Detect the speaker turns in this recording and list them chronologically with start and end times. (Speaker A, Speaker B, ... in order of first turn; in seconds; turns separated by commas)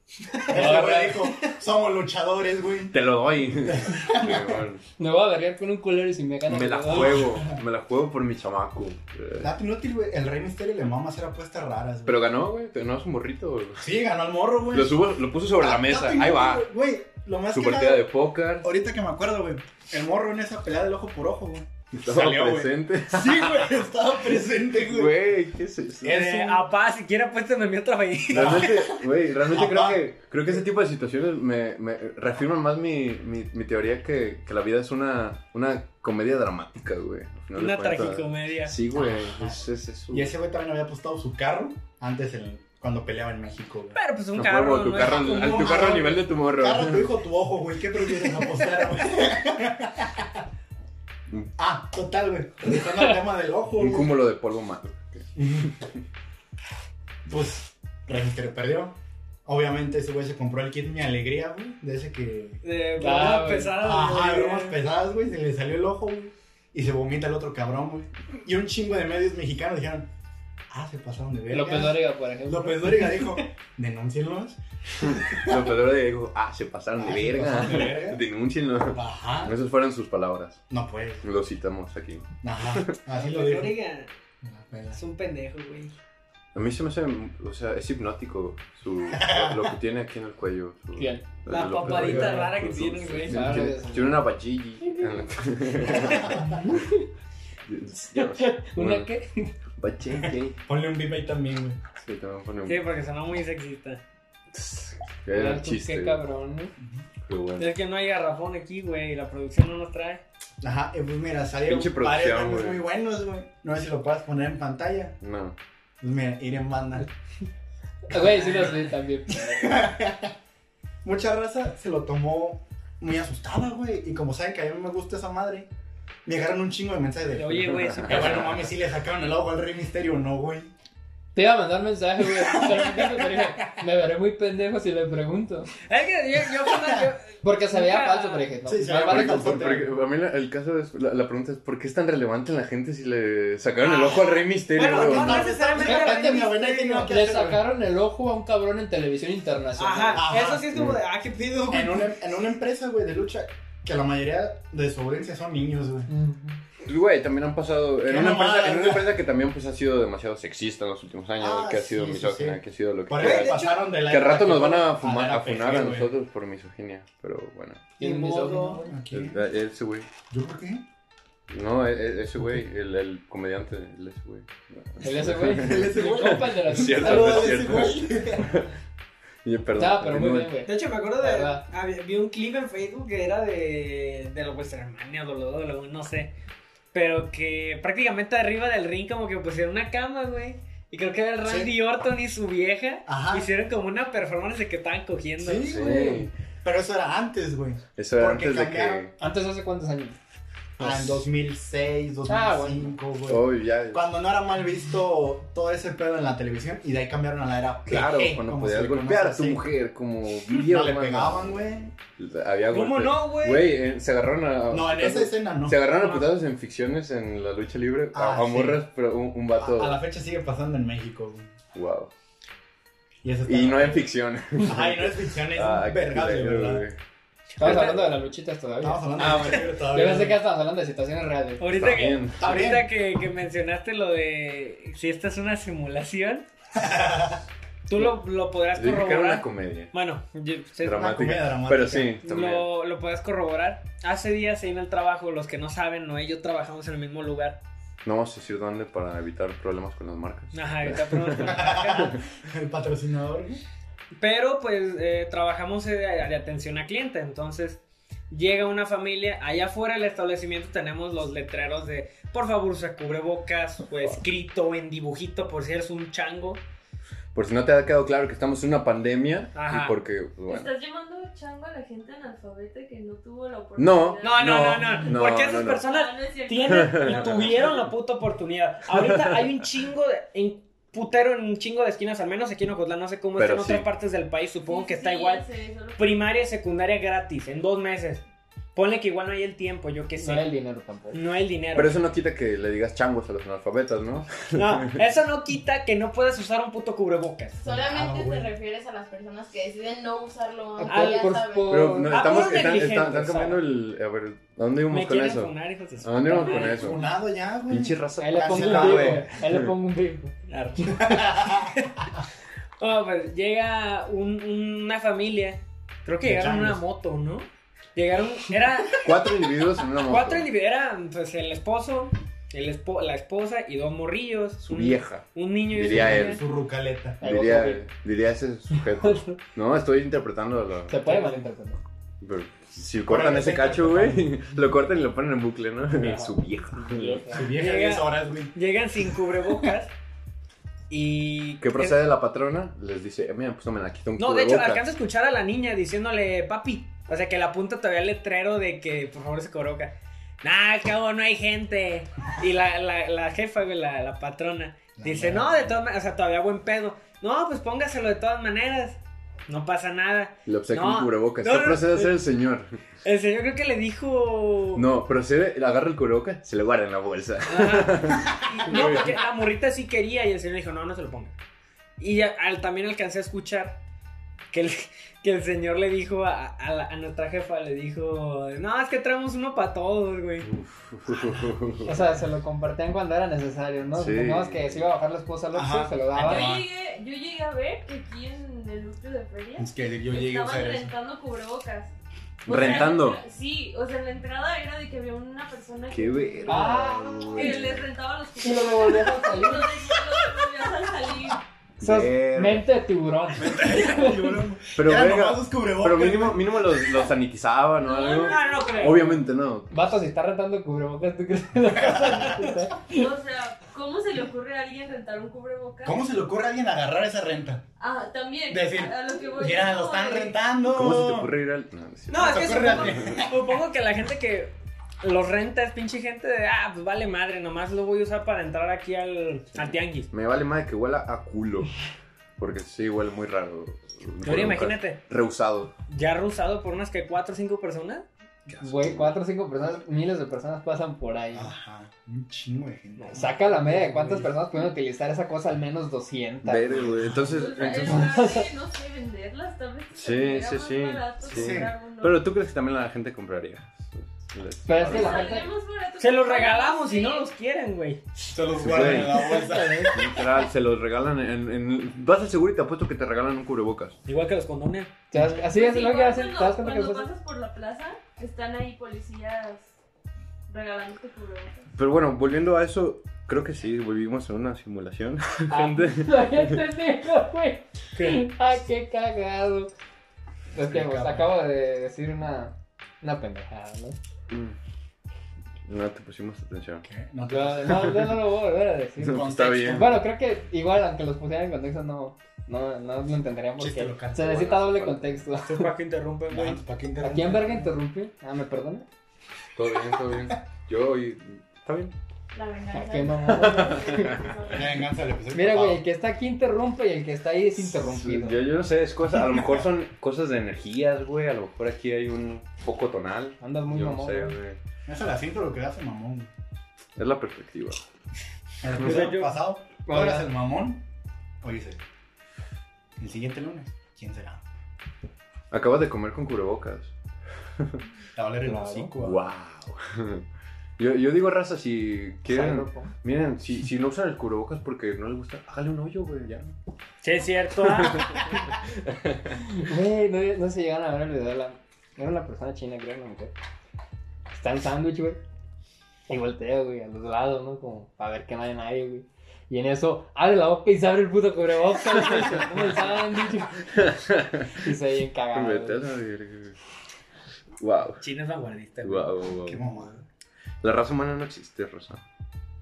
Speaker A: 0.5-3.0, Speaker B: 0.5-1.3, Speaker C: 0.6-1.1, Speaker C: 2.9-4.8, Speaker A: 3.6-4.6, Speaker B: 5.0-7.3, Speaker C: 6.5-9.5, Speaker A: 6.9-7.5, Speaker A: 9.4-12.2, Speaker C: 12.1-13.9, Speaker A: 13.8-15.0, Speaker C: 14.7-16.7, Speaker A: 15.6-18.1, Speaker C: 17.5-18.7, Speaker A: 18.6-25.2, Speaker C: 21.9-23.7, Speaker C: 24.8-26.3, Speaker D: 26.0-28.6, Speaker A: 26.1-26.6, Speaker C: 28.3-40.3, Speaker A: 28.3-30.0, Speaker D: 37.5-38.7, Speaker A: 38.9-44.0, Speaker D: 43.9-46.0, Speaker C: 44.3-47.1, Speaker A: 45.3-50.4, Speaker A: 51.6-54.1, Speaker C: 53.8-55.9, Speaker A: 55.4-55.7, Speaker A: 57.2-62.6, Speaker D: 62.6-64.8, Speaker B: 63.0-63.8, Speaker A: 63.8-70.1, Speaker A: 70.7-75.7, Speaker B: 71.5-73.2, Speaker C: 75.0-80.6, Speaker A: 77.0-78.2, Speaker A: 78.9-79.6, Speaker A: 80.7-81.2, Speaker C: 81.2-82.9, Speaker A: 82.4-83.7, Speaker D: 83.1-84.1, Speaker A: 84.4-85.0, Speaker D: 84.9-85.9, Speaker C: 86.5-96.8, Speaker A: 89.1-89.7, Speaker B: 91.0-91.3, Speaker D: 91.5-93.4, Speaker B: 91.8-92.5, Speaker B: 93.3-94.3, Speaker B: 94.8-95.3, Speaker A: 96.0-96.4, Speaker B: 96.6-97.0, Speaker C: 97.7-99.1, Speaker B: 98.1-99.5, Speaker C: 99.7-100.6, Speaker A: 100.7-101.8, Speaker C: 102.0-102.8, Speaker D: 102.6-104.0, Speaker C: 104.5-106.2, Speaker B: 105.3-106.7, Speaker C: 107.2-107.7, Speaker D: 107.6-110.2, Speaker A: 110.6-115.2, Speaker C: 111.7-112.9, Speaker C: 115.2-115.5, Speaker A: 116.0-117.1, Speaker B: 118.1-119.9, Speaker A: 118.1-120.3, Speaker A: 121.0-125.7, Speaker A: 126.2-130.7, Speaker D: 127.3-128.7, Speaker C: 127.8-128.5, Speaker B: 131.3-135.7, Speaker A: 132.4-133.7, Speaker D: 135.9-138.5, Speaker A: 136.7-137.1, Speaker B: 137.4-139.8, Speaker A: 138.6-139.9, Speaker C: 139.0-145.5, Speaker D: 143.8-146.7, Speaker A: 144.8-147.6, Speaker B: 145.8-150.3, Speaker D: 149.8-152.1, Speaker A: 150.1-150.7, Speaker A: 151.7-156.1, Speaker B: 156.1-156.6, Speaker C: 156.8-167.9, Speaker A: 158.0-159.1, Speaker A: 161.4-166.1, Speaker D: 163.2-163.8, Speaker B: 168.0-168.9, Speaker D: 168.0-168.8, Speaker A: 168.5-169.4, Speaker C: 169.1-170.1, Speaker A: 170.3-170.8, Speaker C: 171.5-178.7, Speaker B: 175.0-177.7, Speaker A: 175.5-178.6, Speaker C: 179.4-180.6, Speaker B: 179.8-181.6, Speaker D: 180.6-186.3, Speaker D: 186.9-195.8, Speaker A: 191.4-191.7, Speaker A: 193.1-193.5, Speaker A: 195.4-199.1, Speaker C: 195.6-196.3, Speaker C: 197.9-199.1, Speaker B: 199.2-200.2, Speaker C: 200.8-201.2, Speaker A: 200.8-209.7, Speaker B: 202.3-202.9, Speaker C: 203.3-204.0, Speaker C: 207.8-220.0, Speaker A: 210.5-212.0, Speaker D: 212.7-213.8, Speaker A: 214.7-215.9, Speaker D: 216.0-216.3, Speaker A: 218.1-218.8, Speaker A: 219.5-221.6, Speaker C: 221.7-222.1, Speaker A: 223.2-224.1, Speaker C: 223.4-227.0, Speaker A: 224.6-226.8, Speaker D: 227.6-228.0, Speaker C: 227.6-228.2, Speaker B: 227.6-231.7, Speaker A: 228.8-230.4, Speaker C: 229.2-229.5, Speaker D: 231.6-236.4, Speaker C: 231.7-232.7, Speaker A: 232.4-232.9, Speaker A: 236.8-237.4, Speaker D: 237.9-241.3, Speaker C: 238.7-239.9, Speaker C: 240.8-242.7, Speaker A: 240.9-242.2, Speaker D: 242.2-247.6, Speaker C: 248.0-252.2, Speaker D: 250.5-252.2, Speaker A: 251.4-253.6, Speaker D: 254.2-266.6, Speaker C: 267.3-270.7, Speaker D: 269.5-269.9, Speaker E: 270.4-277.7, Speaker C: 273.8-275.9, Speaker D: 274.2-285.4, Speaker C: 276.7-277.8, Speaker C: 278.9-279.4, Speaker C: 283.4-283.9, Speaker E: 284.7-286.3, Speaker D: 286.0-288.2, Speaker D: 288.7-290.5, Speaker B: 290.2-291.2, Speaker D: 291.1-292.0, Speaker C: 291.7-295.0, Speaker D: 294.5-297.6, Speaker F: 297.6-302.0, Speaker A: 297.6-298.5, Speaker B: 300.8-302.6, Speaker D: 300.9-301.2, Speaker C: 301.7-307.0, Speaker D: 302.1-303.6, Speaker D: 304.9-307.0, Speaker A: 306.5-309.3, Speaker C: 307.7-309.7, Speaker B: 308.2-310.3, Speaker D: 310.5-311.9, Speaker A: 311.0-311.7, Speaker D: 312.8-319.1, Speaker A: 316.2-316.8, Speaker C: 319.0-320.5, Speaker D: 319.9-326.4, Speaker C: 324.6-326.4, Speaker A: 325.8-327.2, Speaker C: 327.2-331.3, Speaker B: 327.2-327.8, Speaker B: 328.9-329.4, Speaker B: 330.9-331.8, Speaker C: 332.2-337.3, Speaker A: 333.0-334.3, Speaker B: 335.9-337.5, Speaker A: 337.3-338.6, Speaker D: 337.5-339.9, Speaker D: 340.9-342.0, Speaker C: 341.6-344.9, Speaker D: 344.2-362.2, Speaker A: 355.0-355.8, Speaker C: 360.4-362.8, Speaker D: 363.0-364.9, Speaker C: 364.7-369.2, Speaker D: 367.4-371.4, Speaker D: 372.0-373.8, Speaker D: 374.5-380.5, Speaker C: 380.4-382.0, Speaker A: 381.1-382.0, Speaker B: 381.9-386.5, Speaker C: 383.9-384.9, Speaker A: 385.5-386.7, Speaker E: 386.2-391.9, Speaker A: 389.6-390.9, Speaker E: 392.4-396.8, Speaker C: 392.5-393.2, Speaker C: 395.9-397.9, Speaker B: 396.4-397.7, Speaker E: 397.3-401.4, Speaker B: 398.4-399.7, Speaker C: 401.8-402.7, Speaker B: 401.8-404.4, Speaker A: 403.4-406.8, Speaker C: 404.7-409.9, Speaker E: 407.7-409.2, Speaker D: 408.2-409.1, Speaker B: 409.7-413.1, Speaker A: 411.7-412.6, Speaker E: 412.9-416.1, Speaker A: 415.8-417.6, Speaker E: 417.8-420.4, Speaker A: 418.5-421.3, Speaker C: 420.6-423.2, Speaker D: 422.1-430.1, Speaker A: 422.1-423.5, Speaker E: 422.2-422.9, Speaker C: 430.1-431.7, Speaker C: 432.4-435.7, Speaker D: 434.2-435.0, Speaker D: 435.9-438.1, Speaker C: 438.5-439.1, Speaker B: 438.6-441.5, Speaker A: 441.3-444.3, Speaker D: 443.0-443.4, Speaker B: 443.1-446.9, Speaker C: 446.4-448.2, Speaker A: 446.7-447.5, Speaker E: 447.2-452.3, Speaker B: 447.8-448.5, Speaker C: 449.9-455.4, Speaker A: 451.3-451.7, Speaker B: 454.6-455.5, Speaker E: 454.8-457.3, Speaker D: 456.0-458.1, Speaker A: 458.3-460.1, Speaker C: 458.6-464.0, Speaker B: 458.8-459.9, Speaker D: 464.1-464.9, Speaker B: 465.1-467.1, Speaker A: 465.1-465.4, Speaker E: 465.4-469.8, Speaker E: 470.5-471.7, Speaker C: 471.7-476.6, Speaker B: 475.5-479.7, Speaker D: 477.9-478.2, Speaker B: 480.5-484.0, Speaker A: 480.5-481.3, Speaker C: 484.3-484.5, Speaker C: 485.6-486.9, Speaker A: 486.8-488.1, Speaker B: 487.3-495.7, Speaker C: 489.0-490.0, Speaker A: 489.1-489.8, Speaker A: 493.6-494.6, Speaker C: 494.2-495.2, Speaker D: 495.4-496.6, Speaker A: 496.3-497.7, Speaker B: 497.0-498.9, Speaker C: 499.5-501.9, Speaker F: 502.3-504.8, Speaker B: 502.7-504.2, Speaker C: 503.3-504.3, Speaker A: 504.5-505.8, Speaker B: 505.3-508.4, Speaker C: 507.8-514.6, Speaker A: 509.2-509.5, Speaker B: 513.4-514.4, Speaker A: 514.9-516.3, Speaker C: 517.0-517.8, Speaker A: 518.6-520.8, Speaker D: 518.8-519.4, Speaker B: 519.9-520.3, Speaker A: 521.4-521.8, Speaker A: 523.0-524.4, Speaker C: 525.5-526.9, Speaker A: 528.1-529.3, Speaker B: 528.4-528.9, Speaker C: 529.0-530.2, Speaker C: 530.8-536.5, Speaker B: 532.3-532.9, Speaker D: 537.0-538.0, Speaker C: 537.6-539.4, Speaker B: 539.4-543.3, Speaker B: 544.3-545.2, Speaker B: 546.1-553.7, Speaker C: 553.7-554.7, Speaker B: 554.5-555.9, Speaker C: 555.3-556.6, Speaker C: 557.6-558.0, Speaker D: 558.0-559.2, Speaker C: 558.8-559.7, Speaker A: 559.4-560.0, Speaker C: 560.6-562.0